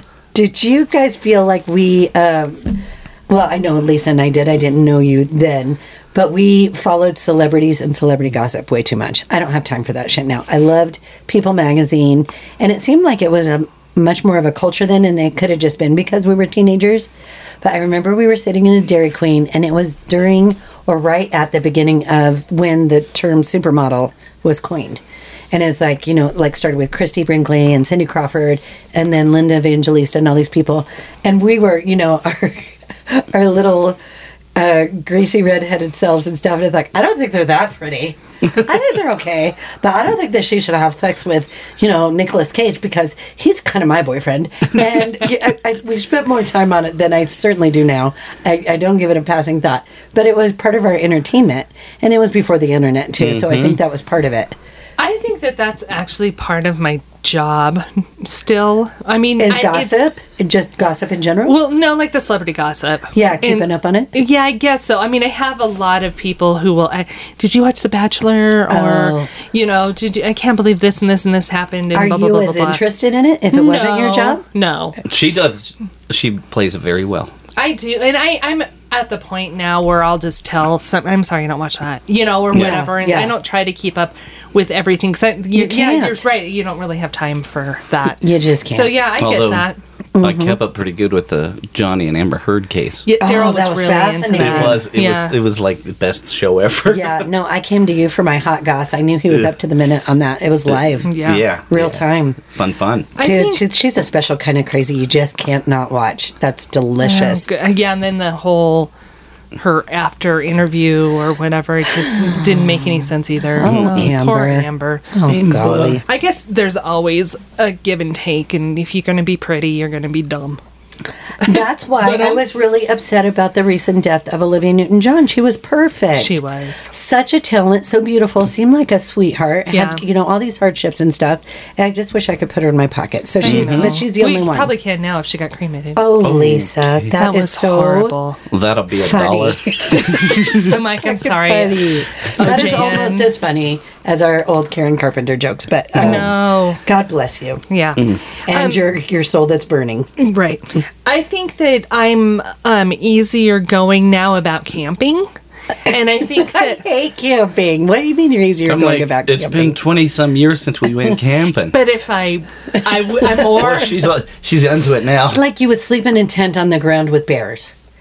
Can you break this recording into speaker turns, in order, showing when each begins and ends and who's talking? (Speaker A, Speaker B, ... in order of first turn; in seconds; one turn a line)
Speaker A: 0.3-17.1
Speaker A: 17.6-34.0
Speaker A: 34.5-54.5
Speaker B: 53.2-53.8
Speaker C: 55.0-60.0
Speaker A: 59.4-61.6
Speaker C: 61.5-72.8
Speaker A: 63.1-64.1
Speaker A: 68.7-69.3
Speaker A: 71.9-74.4
Speaker C: 73.5-75.0
Speaker B: 75.0-77.3
Speaker C: 77.5-89.8
Speaker A: 82.5-83.3
Speaker A: 85.5-86.2
Speaker A: 88.2-88.9
Speaker B: 89.2-89.7
Speaker A: 90.1-90.6
Speaker B: 90.2-93.0
Speaker C: 93.0-95.3
Speaker A: 93.2-94.8
Speaker B: 94.4-97.2
Speaker A: 96.9-101.1
Speaker C: 101.0-101.4
Speaker B: 101.1-103.1
Speaker A: 101.7-102.4
Speaker C: 103.2-103.6
Speaker A: 103.2-107.5
Speaker C: 107.0-108.9
Speaker C: 109.5-115.1
Speaker A: 113.6-116.0
Speaker B: 113.6-114.1
Speaker B: 115.3-116.0
Speaker C: 116.0-120.6
Speaker A: 121.4-126.4
Speaker C: 121.4-122.4
Speaker C: 126.1-126.9
Speaker A: 126.9-134.7
Speaker C: 129.7-130.0
Speaker C: 133.4-136.1
Speaker B: 133.4-133.9
Speaker A: 135.9-138.1
Speaker B: 136.2-137.1
Speaker C: 137.2-138.4
Speaker B: 138.5-140.7
Speaker A: 139.0-147.6
Speaker C: 140.2-143.3
Speaker C: 146.0-146.8
Speaker C: 147.7-148.8
Speaker A: 148.4-150.1
Speaker C: 150.2-155.3
Speaker C: 155.8-156.8
Speaker A: 156.3-159.8
Speaker B: 158.7-161.8
Speaker C: 161.7-164.0
Speaker B: 163.4-165.4
Speaker A: 165.3-167.7